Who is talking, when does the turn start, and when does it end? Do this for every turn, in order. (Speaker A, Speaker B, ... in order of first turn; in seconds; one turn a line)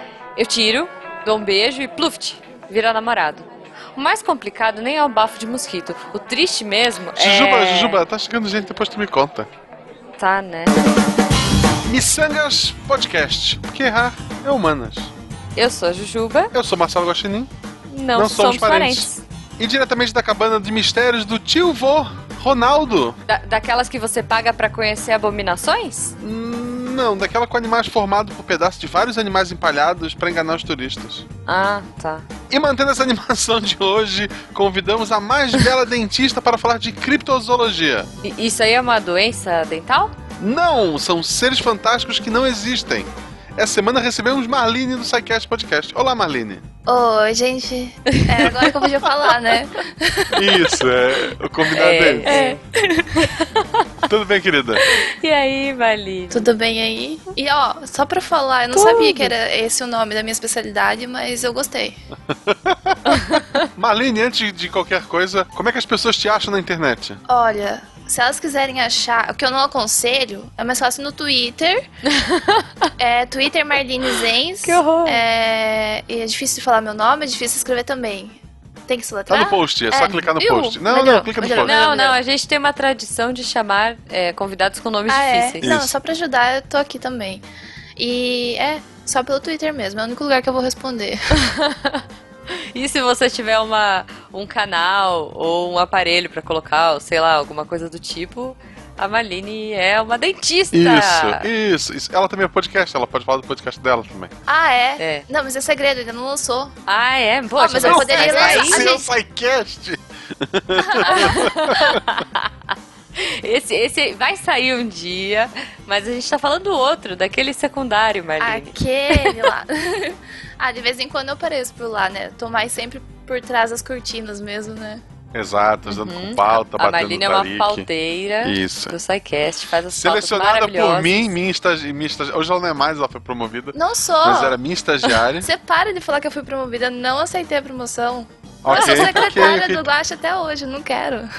Speaker A: 0.4-8.0
Speaker B: 7.2-9.5
Speaker A: 10.2-10.7
Speaker B: 11.9-15.1
Speaker A: 15.6-16.5
Speaker B: 16.5-17.5
Speaker A: 17.9-19.2
Speaker B: 18.1-23.2
Speaker A: 23.3-26.1
Speaker B: 26.2-31.3
Speaker A: 31.5-32.3
Speaker B: 32.5-38.1
Speaker A: 38.2-40.1
Speaker B: 40.4-46.6
Speaker C: 46.9-50.6
Speaker A: 48.1-48.7
Speaker B: 50.3-52.4
Speaker A: 51.7-52.6
Speaker C: 52.2-53.3
Speaker A: 53.2-53.9
Speaker B: 54.1-54.8
Speaker A: 54.9-56.5
Speaker C: 56.3-62.0
Speaker A: 58.7-59.3
Speaker B: 62.3-67.2
Speaker A: 63.1-63.7
Speaker C: 67.3-71.8
Speaker A: 72.0-72.9
Speaker C: 73.0-82.2
Speaker A: 74.6-75.2
Speaker B: 79.3-81.8
Speaker A: 81.6-85.7
Speaker C: 85.1-87.4
Speaker B: 85.6-85.9
Speaker C: 88.0-91.3
Speaker A: 91.3-92.0
Speaker A: 92.7-101.5
Speaker B: 100.7-104.3
Speaker C: 104.5-106.8
Speaker A: 105.0-105.2
Speaker A: 106.9-108.8
Speaker C: 107.6-109.1
Speaker B: 107.8-112.0
Speaker C: 110.8-111.5
Speaker A: 111.0-119.5
Speaker C: 118.4-125.0
Speaker B: 125.3-127.9
Speaker A: 125.9-131.3
Speaker B: 128.4-128.9
Speaker B: 129.9-135.5
Speaker C: 133.7-134.6
Speaker C: 135.4-141.3
Speaker B: 138.6-139.9
Speaker A: 138.7-139.3